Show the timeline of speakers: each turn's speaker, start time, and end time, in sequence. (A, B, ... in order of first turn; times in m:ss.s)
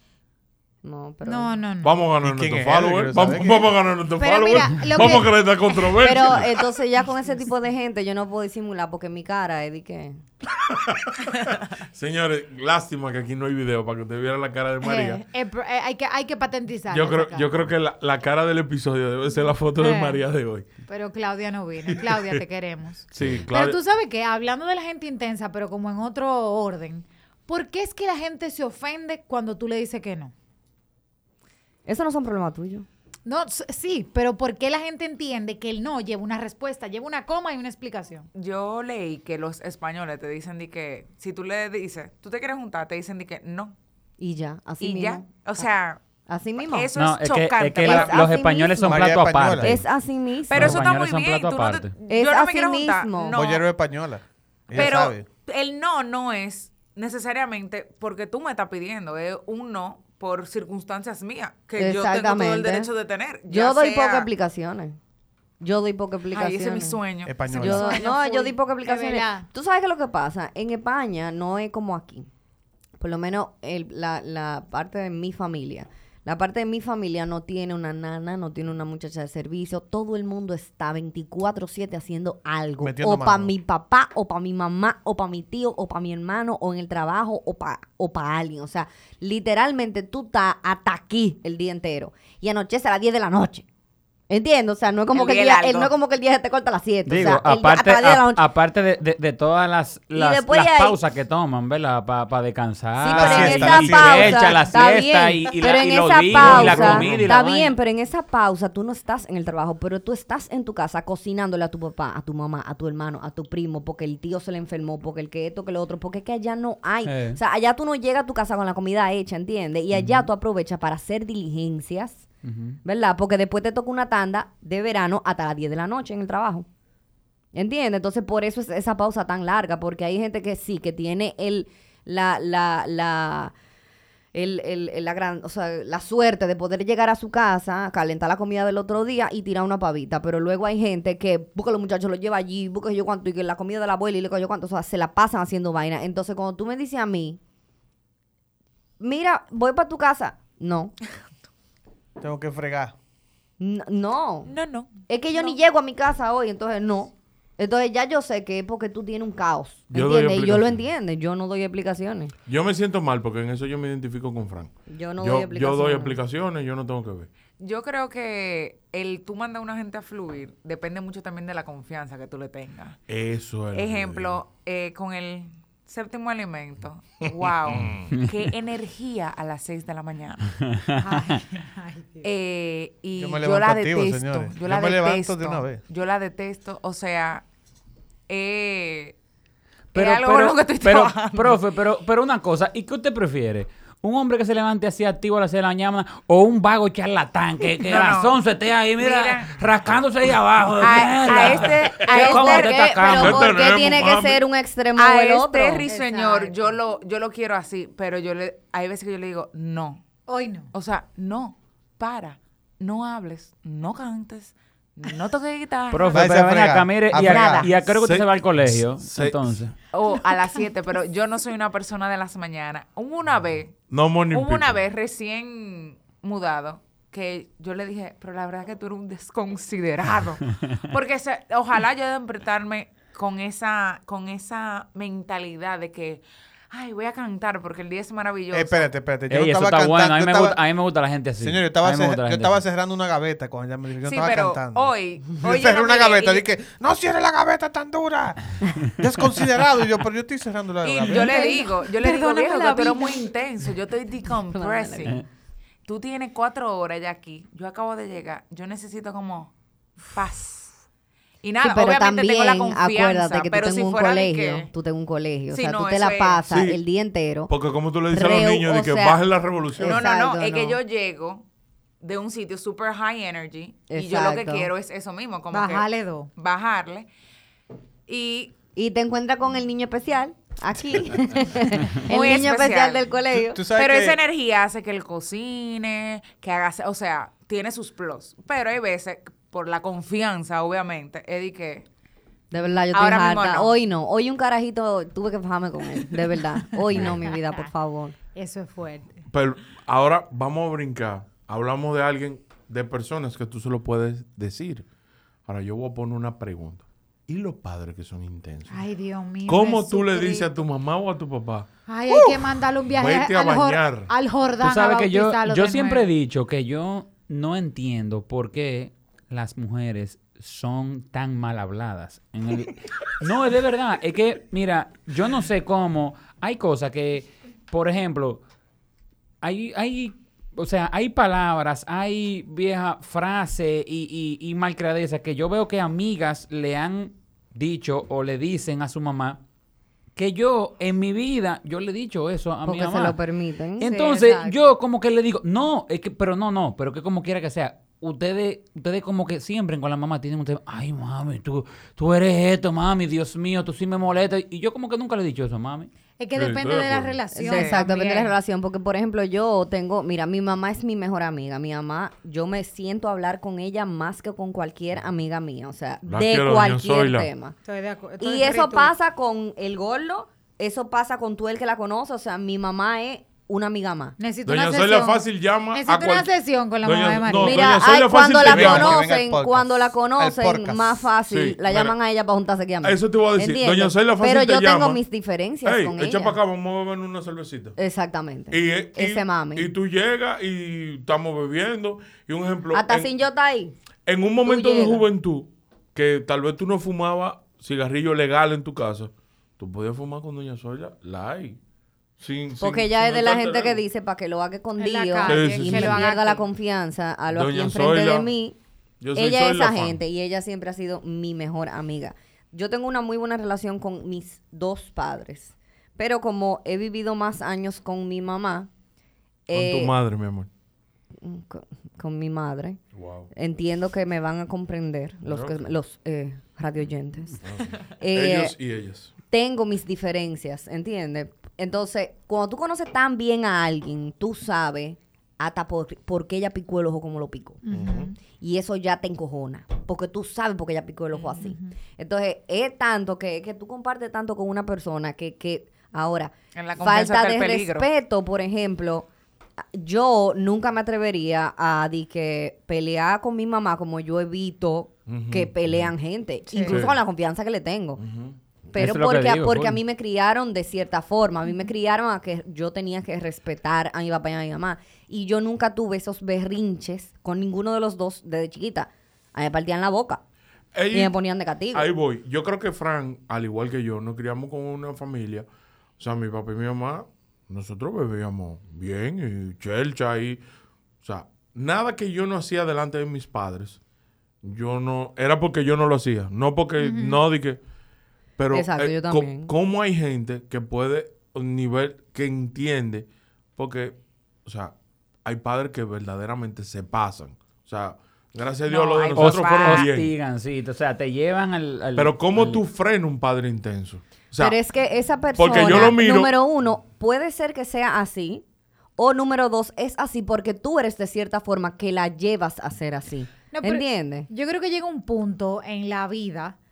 0:00.8-0:01.6 A
0:01.2-0:02.0 B
0:01.8-0:06.5 C
0:02.2-0:03.7 D
0:04.1-0:06.0 B
0:06.0-0:10.2 A
0:07.0-0:07.4 B
0:10.6-0:15.2 C
0:14.8-0:17.5 B
0:16.9-0:20.7 C
0:19.7-0:20.2 B
0:20.9-0:30.3 B
0:21.9-0:22.4 C
0:23.1-0:23.8 C
0:31.8-0:32.8 A
0:33.2-0:38.3 B
0:38.3-0:43.7 E
0:44.2-0:45.6 A
0:44.8-0:46.0 E
0:46.3-0:46.9 A
0:46.7-0:48.3 E
0:47.0-0:49.8 F
0:47.8-0:49.1 A
0:48.8-0:49.8 D
0:49.6-0:50.8 A
0:50.5-0:53.6 E
0:50.5-0:51.9 F
0:52.1-0:53.4 A
0:53.3-0:55.2 D
0:54.7-1:04.3 E
1:01.8-1:02.9 A
1:03.5-1:05.0 A
1:05.6-1:12.3 A
1:06.3-1:08.1 E
1:07.2-1:07.9 D
1:07.6-1:09.5 B
1:13.0-1:33.6 A
1:22.8-1:23.5 D
1:34.3-1:38.4 A
1:35.1-1:35.9 E
1:37.0-1:47.8 F
1:40.1-1:41.0 A
1:43.0-2:02.2 A
1:43.1-1:44.6 D
1:46.3-1:47.3 C
1:57.0-1:57.4 F
1:59.9-2:00.2 F
2:02.4-2:02.8 F
2:02.8-2:06.7 A
2:07.5-2:13.5 A
2:14.3-2:27.4 A
2:29.0-2:30.9 A
2:32.2-2:32.9 D
2:33.6-2:34.5 A
2:34.5-2:35.6 E
2:35.1-2:42.3 A
2:39.9-2:40.8 C
2:42.5-2:47.3 C
2:44.9-2:46.2 A
2:47.6-2:53.0 E
2:53.1-2:54.4 C
2:53.7-3:00.5 E
2:57.2-2:58.1 C
3:00.6-3:01.2 F
3:01.0-3:02.3 B
3:02.2-3:07.4 E
3:03.2-3:05.8 D
3:08.3-3:09.2 E
3:09.9-3:11.6 E
3:09.9-3:23.5 F
3:17.8-3:18.4 E
3:19.0-3:19.6 E
3:20.8-3:23.0 E
3:21.3-3:25.9 A
3:23.1-3:24.4 C
3:25.0-3:30.0 E
3:25.9-3:26.6 B
3:30.3-3:30.7 B
3:30.7-3:36.2 E
3:35.9-3:39.7 F
3:36.1-3:37.8 D
3:37.3-3:37.6 B
3:37.8-3:39.6 C
3:39.9-3:58.9 E
3:43.9-3:44.8 C
3:58.5-4:00.6 D
3:59.3-4:02.6 F
4:01.4-4:11.4 D
4:04.0-4:06.5 E
4:10.8-4:15.2 E
4:11.1-4:13.3 B
4:14.5-4:15.2 A
4:15.8-4:20.8 E
4:21.4-4:24.7 E
4:21.6-4:27.5 A
4:25.5-4:26.4 E
4:26.5-4:26.8 C
4:27.5-4:30.0 C
4:28.1-4:29.2 A
4:29.7-4:30.8 A
4:29.8-4:31.4 E
4:32.0-4:37.1 E
4:33.9-4:34.7 A
4:35.5-4:36.3 B
4:38.1-4:38.5 E
4:38.8-4:43.6 A
4:41.9-4:43.1 E
4:43.5-4:44.2 D
4:43.7-4:51.8 E
4:52.5-4:58.1 A
4:52.9-4:53.7 E
4:57.1-4:57.6 B
4:58.3-4:59.2 B
4:59.3-5:04.8 C
5:05.5-5:08.8 C
5:08.7-5:10.6 B
5:09.4-5:11.7 C
5:11.9-5:16.1 B
5:12.9-5:14.1 C
5:14.6-5:28.4 F
5:29.4-5:39.4 F
5:40.2-5:43.2 F
5:42.6-5:43.9 A
5:43.8-5:55.9 F
5:43.8-5:44.7 B
5:56.2-5:58.3 B
5:56.3-5:57.2 C
5:57.3-6:07.6 A
5:57.4-5:57.8 E
6:06.0-6:07.3 C
6:07.6-6:08.9 B
6:08.2-6:14.2 A
6:14.2-6:17.9 B
6:14.4-6:19.1 C
6:17.4-6:26.4 A
6:18.3-6:21.0 D
6:21.2-6:21.9 C
6:22.8-6:25.0 C
6:25.6-6:27.8 C
6:27.8-6:29.7 A
6:28.5-6:33.1 C
6:32.7-6:33.8 A
6:34.0-6:41.6 C
6:34.4-6:35.0 A
6:42.2-6:43.8 C
6:42.6-6:48.6 A
6:44.8-6:46.5 B
6:45.2-6:46.1 C
6:47.3-6:48.3 C
6:49.0-6:50.0 C
6:49.1-6:58.7 A
6:59.5-6:59.9 A
6:59.5-7:00.5 C
7:01.2-7:02.8 A
7:02.9-7:03.3 C
7:03.3-7:07.4 A
7:05.2-7:05.7 C
7:07.4-7:09.1 C
7:08.0-7:08.6 A
7:09.3-7:17.6 A
7:17.6-7:18.1 B
7:17.7-7:18.1 C
7:18.2-7:29.1 A
7:21.4-7:21.7 B
7:26.5-7:27.9 E
7:29.6-7:38.0 A
7:35.1-7:35.9 C
7:36.5-7:36.8 B
7:36.7-7:37.0 C
7:38.0-7:38.4 C
7:38.7-7:50.2 A
7:38.8-7:39.8 F
7:50.7-7:51.1 C
7:50.9-7:51.9 A
7:51.7-7:55.4 C
7:56.0-8:00.4 C
8:01.0-8:03.8 C
8:04.4-8:07.6 C
8:06.8-8:07.2 B
8:08.4-8:14.7 C
8:08.5-8:09.5 A
8:15.2-8:20.1 C
8:18.7-8:19.9 E
8:19.1-8:22.6 F
8:22.0-8:24.6 C
8:24.4-8:28.4 A
8:25.4-8:26.3 C
8:29.0-8:34.3 A
8:33.5-8:36.6 B